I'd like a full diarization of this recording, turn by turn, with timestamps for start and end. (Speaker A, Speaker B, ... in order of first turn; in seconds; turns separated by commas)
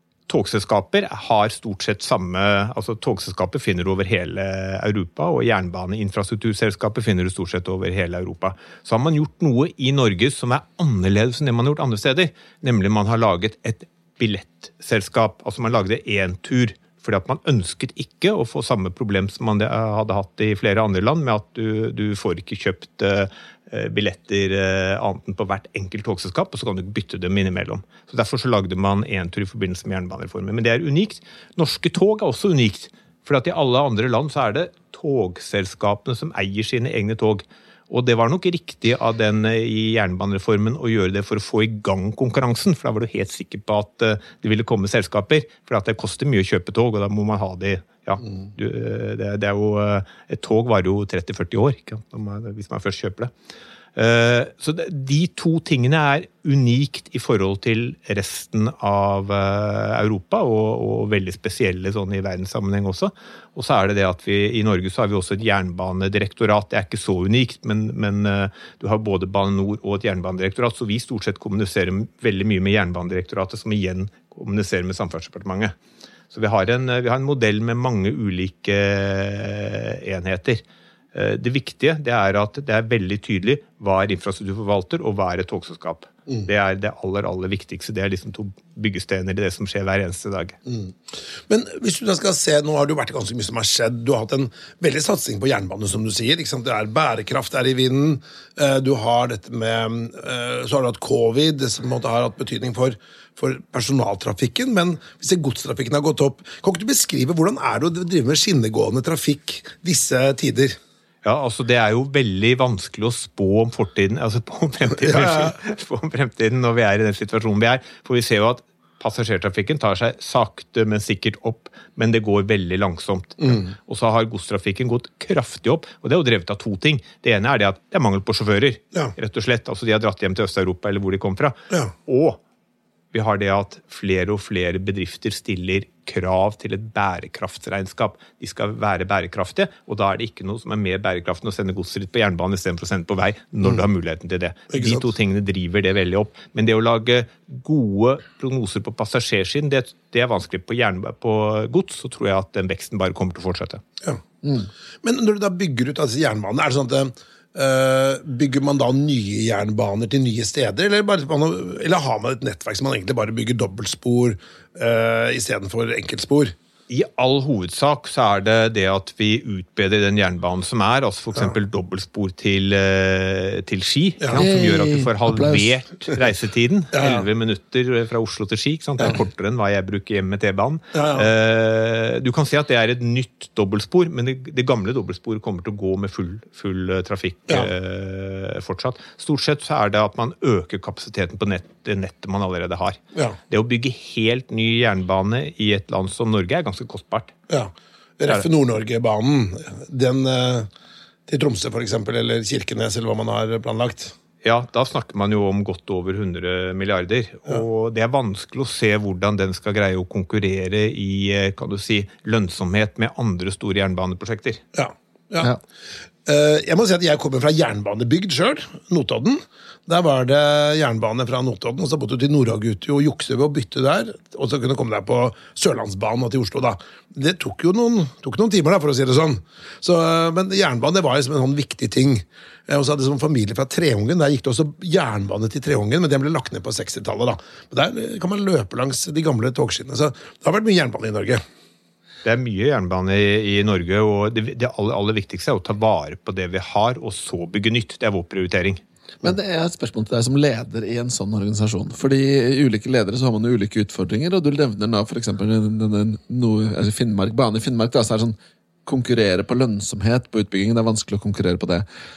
Speaker A: 0.3-53.3, Speaker A: 54.0-75.7, Speaker A: 76.3-80.6, Speaker A: 81.1-90.6, Speaker B: 90.7-110.8, Speaker A: 111.2-132.4, Speaker B: 115.0-115.5, Speaker A: 133.1-153.8, Speaker B: 144.7-145.1, Speaker C: 154.4-154.7, Speaker B: 155.0-166.6, Speaker A: 166.9-193.0, Speaker B: 174.2-174.5, Speaker C: 174.3-175.7, Speaker B: 176.9-177.3, Speaker B: 180.9-181.3, Speaker A: 193.5-197.3, Speaker B: 197.5-200.7, Speaker B: 201.3-204.2, Speaker A: 204.4-214.6, Speaker B: 214.7-215.6, Speaker B: 216.2-241.4, Speaker A: 242.2-248.8, Speaker C: 249.2-261.9